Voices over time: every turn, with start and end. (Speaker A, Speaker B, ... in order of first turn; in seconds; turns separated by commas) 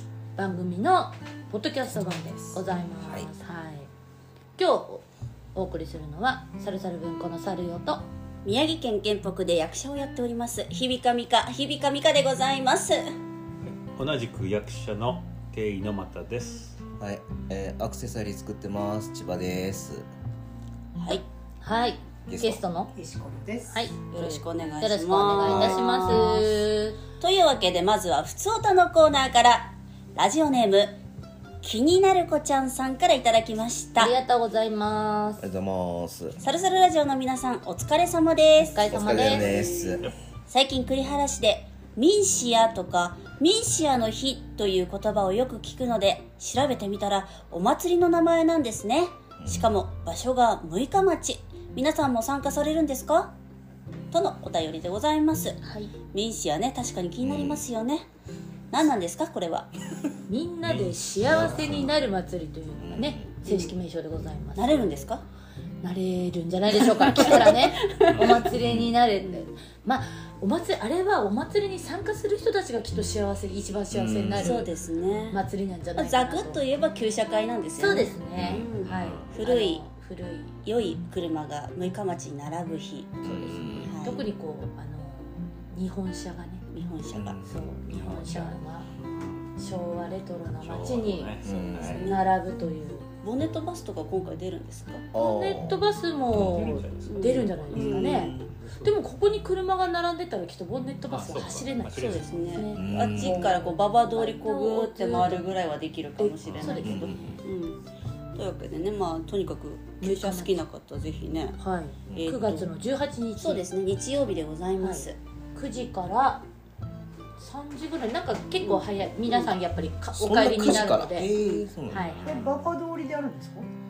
Speaker A: 0.4-3.9, Speaker A: 4.6-5.0, Speaker A: 5.5-8.1, Speaker B: 8.4-13.0, Speaker C: 13.7-16.8, Speaker D: 17.0-20.0, Speaker B: 21.0-21.2, Speaker A: 21.1-22.9, Speaker D: 22.3-22.6, Speaker E: 22.9-23.9, Speaker A: 23.7-27.0, Speaker B: 24.1-26.7, Speaker D: 25.4-26.2, Speaker B: 27.2-31.0, Speaker B: 31.6-34.1, Speaker A: 34.0-35.4, Speaker D: 35.4-36.4, Speaker B: 36.4-40.0, Speaker A: 38.6-39.5, Speaker D: 38.9-40.1, Speaker B: 40.5-53.3, Speaker B: 54.1-55.6, Speaker A: 55.6-55.9, Speaker B: 56.1-58.1, Speaker D: 57.2-57.6, Speaker B: 58.7-59.7, Speaker A: 60.3-65.1, Speaker C: 60.7-61.7, Speaker D: 61.2-61.9, Speaker D: 62.8-63.3, Speaker B: 63.5-63.7, Speaker B: 64.5-65.2, Speaker A: 65.8-74.7, Speaker B: 67.1-68.3, Speaker D: 68.6-68.9, Speaker B: 69.2-69.4, Speaker D: 73.9-74.6, Speaker B: 74.4-75.4, Speaker A: 75.3-76.6, Speaker B: 76.0-79.8, Speaker A: 77.8-80.5, Speaker D: 78.3-78.7, Speaker C: 78.9-79.3, Speaker B: 80.6-84.2, Speaker D: 83.2-83.9, Speaker A: 84.0-86.6, Speaker B: 86.7-87.4, Speaker D: 87.1-87.6, Speaker A: 87.4-88.9, Speaker B: 88.0-88.3, Speaker C: 89.0-89.5, Speaker A: 89.5-91.4, Speaker C: 90.5-92.0, Speaker D: 91.4-92.0, Speaker B: 91.9-92.3, Speaker A: 91.9-93.0, Speaker B: 93.2-95.0, Speaker D: 95.1-96.8, Speaker A: 95.1-105.6, Speaker C: 96.3-99.0, Speaker B: 97.0-98.5, Speaker C: 101.1-102.6, Speaker B: 101.9-107.8, Speaker D: 102.7-103.5, Speaker A: 106.2-107.2, Speaker C: 106.4-106.8, Speaker D: 106.8-107.4, Speaker B: 108.3-111.6, Speaker A: 110.0-110.6, Speaker A: 111.6-113.6, Speaker B: 112.1-112.7, Speaker B: 113.4-115.2, Speaker A: 114.8-116.4, Speaker A: 117.4-121.3, Speaker B: 118.6-119.5, Speaker D: 120.1-122.3, Speaker B: 121.3-121.7, Speaker A: 121.8-122.4, Speaker C: 122.1-122.4, Speaker E: 122.2-123.7